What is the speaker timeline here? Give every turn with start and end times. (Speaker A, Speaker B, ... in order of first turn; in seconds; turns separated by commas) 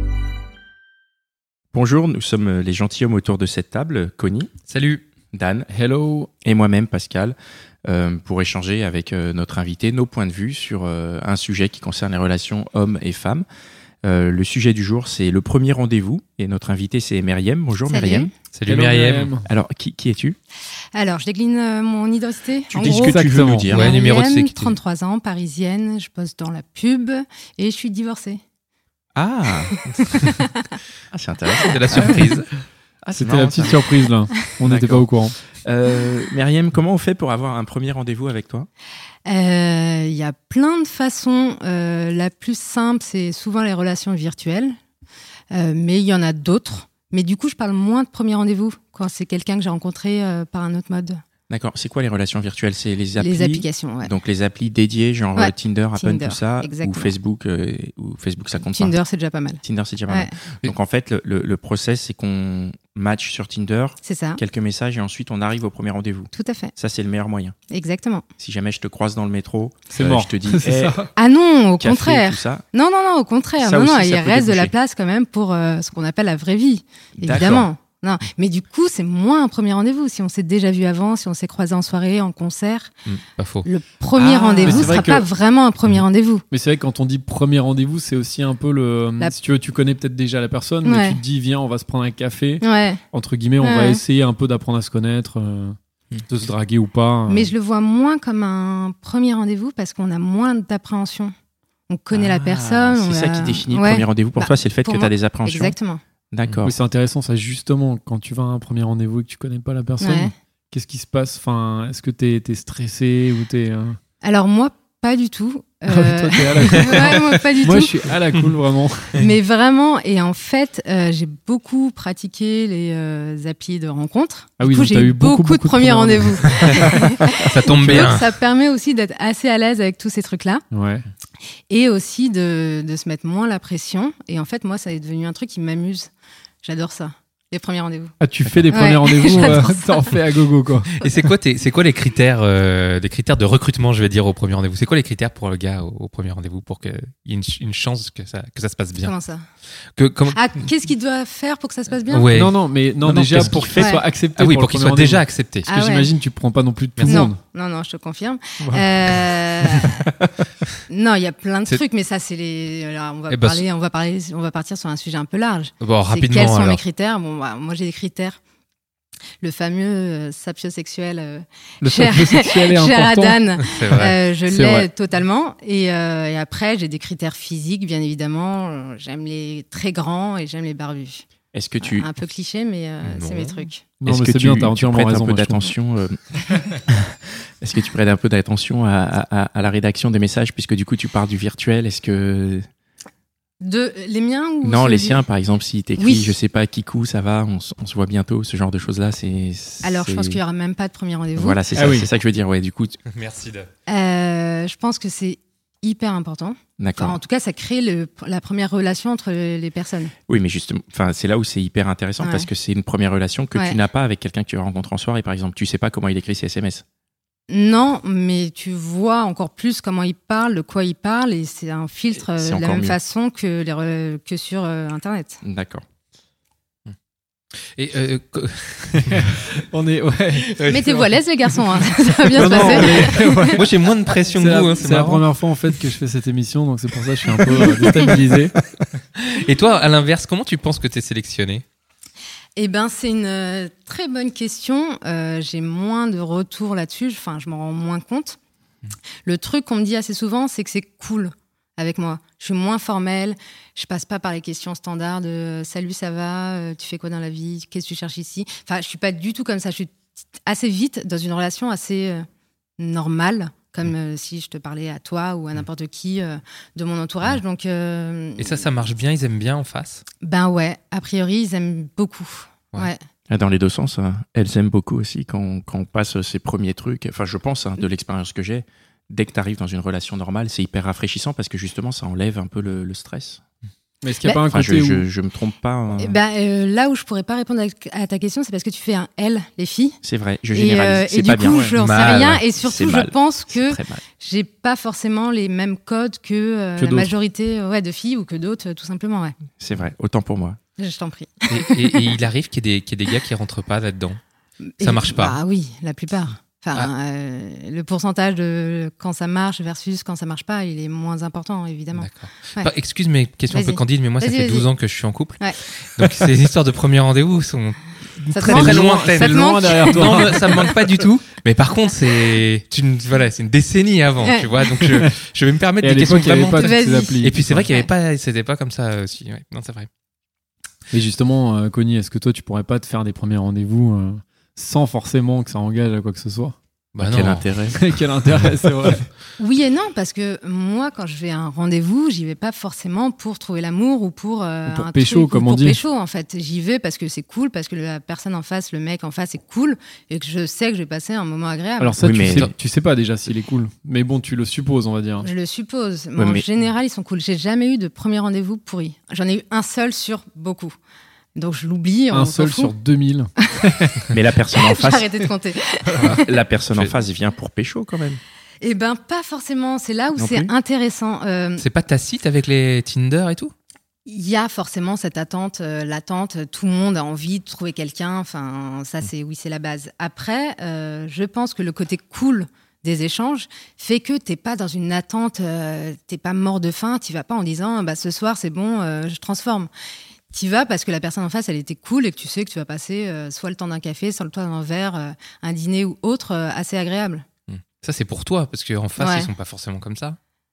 Speaker A: 1.7-4.5, Speaker B: 4.7-5.0, Speaker A: 5.3-5.7, Speaker C: 5.7-6.3, Speaker A: 6.4-7.3, Speaker A: 7.9-13.4, Speaker A: 14.0-18.3, Speaker D: 17.9-18.3, Speaker B: 18.5-19.3, Speaker C: 18.7-19.5, Speaker A: 19.4-20.4, Speaker D: 20.9-28.4, Speaker A: 22.7-24.0, Speaker C: 22.8-23.7, Speaker B: 23.7-24.8, Speaker A: 29.1-29.7, Speaker D: 29.7-30.7, Speaker A: 31.1-32.4, Speaker B: 31.6-32.5, Speaker A: 33.0-33.9, Speaker C: 33.1-35.4, Speaker A: 34.6-38.7, Speaker D: 39.3-44.8, Speaker D: 45.5-51.2, Speaker A: 51.5-59.0, Speaker D: 53.2-54.1, Speaker D: 55.4-57.1, Speaker D: 58.7-60.3, Speaker A: 59.6-67.5, Speaker D: 64.0-64.4, Speaker D: 66.3-66.7, Speaker D: 67.7-68.2, Speaker A: 68.4-71.1, Speaker C: 69.9-71.1, Speaker D: 71.2-82.9, Speaker A: 71.8-72.7, Speaker A: 73.6-74.7, Speaker A: 77.2-77.7, Speaker B: 83.1-83.7, Speaker D: 83.7-86.4, Speaker B: 84.2-84.9, Speaker C: 84.6-85.2, Speaker C: 86.5-95.8, Speaker D: 90.8-91.2, Speaker D: 92.6-93.0, Speaker D: 93.6-94.0, Speaker C: 96.3-97.5, Speaker D: 97.3-101.3, Speaker D: 101.9-106.0, Speaker A: 102.1-105.8, Speaker A: 106.3-106.8, Speaker C: 106.6-114.0, Speaker D: 110.0-110.3, Speaker D: 114.2-118.1, Speaker C: 115.9-119.3, Speaker B: 116.8-117.2, Speaker D: 119.2-130.6, Speaker C: 124.6-128.1, Speaker B: 126.6-128.2, Speaker C: 130.7-131.0, Speaker D: 131.7-136.1, Speaker D: 136.6-138.1, Speaker C: 138.2-141.1, Speaker D: 138.7-140.1, Speaker B: 139.2-139.7, Speaker B: 141.0-149.1, Speaker D: 149.0-149.4, Speaker B: 149.9-150.7, Speaker D: 150.3-152.3, Speaker B: 152.1-152.6, Speaker C: 152.3-157.4, Speaker A: 153.0-153.9, Speaker B: 153.3-153.7, Speaker D: 153.8-154.0, Speaker B: 154.3-155.7, Speaker D: 155.7-156.1, Speaker B: 157.0-157.3, Speaker D: 157.0-160.1, Speaker C: 158.6-159.9, Speaker D: 160.9-168.4, Speaker B: 163.3-163.6, Speaker B: 165.8-166.8, Speaker D: 169.4-181.3, Speaker C: 171.8-173.7, Speaker B: 173.7-174.1, Speaker C: 174.5-174.9, Speaker A: 181.5-182.1, Speaker D: 181.8-183.8, Speaker B: 183.0-183.7, Speaker C: 184.0-185.7, Speaker A: 184.0-192.7, Speaker D: 193.6-195.2, Speaker A: 194.6-200.4, Speaker D: 196.0-196.3, Speaker D: 199.8-201.6, Speaker A: 201.3-203.0, Speaker C: 201.8-202.1, Speaker B: 203.1-203.7, Speaker D: 203.9-210.1, Speaker A: 206.8-207.2, Speaker A: 210.3-216.8, Speaker D: 212.2-212.5, Speaker D: 217.5-225.4, Speaker A: 222.3-223.0, Speaker A: 225.4-225.8, Speaker B: 227.7-229.5, Speaker C: 229.0-230.6, Speaker B: 230.3-231.1, Speaker D: 230.7-233.6, Speaker C: 232.3-233.7, Speaker B: 232.3-235.3, Speaker C: 234.3-238.5, Speaker B: 237.2-238.2, Speaker B: 239.2-241.6, Speaker D: 242.6-248.4, Speaker D: 249.2-262.3, Speaker D: 262.8-268.7, Speaker B: 268.4-270.1, Speaker D: 270.2-273.0, Speaker A: 273.3-283.4, Speaker C: 284.0-285.0, Speaker A: 284.5-286.2, Speaker D: 286.0-290.0, Speaker A: 290.0-291.7, Speaker D: 290.5-299.4, Speaker C: 291.5-291.7, Speaker B: 291.8-292.4, Speaker A: 292.6-294.0, Speaker C: 296.8-297.1, Speaker A: 299.6-300.6, Speaker D: 300.8-302.1, Speaker B: 301.5-304.2, Speaker D: 304.6-312.7, Speaker B: 304.8-305.4, Speaker B: 311.9-329.9, Speaker D: 313.5-314.7, Speaker D: 318.3-320.7, Speaker C: 318.5-320.8, Speaker D: 324.2-324.5, Speaker C: 324.8-325.1, Speaker C: 325.8-327.7, Speaker D: 326.6-327.9, Speaker C: 330.9-336.6, Speaker B: 336.9-337.5, Speaker A: 337.0-337.9, Speaker C: 337.7-339.1, Speaker D: 339.4-352.0, Speaker C: 344.7-345.8, Speaker C: 351.8-355.3, Speaker A: 352.0-352.5, Speaker D: 355.2-360.8, Speaker A: 356.2-356.5, Speaker D: 361.4-362.7, Speaker C: 362.1-364.1, Speaker A: 364.1-365.1, Speaker D: 364.6-366.3, Speaker A: 366.0-368.2, Speaker D: 368.6-371.6, Speaker A: 370.2-370.5, Speaker B: 371.6-373.5, Speaker D: 374.1-389.7, Speaker D: 390.3-397.2, Speaker B: 397.5-400.2, Speaker D: 399.0-399.3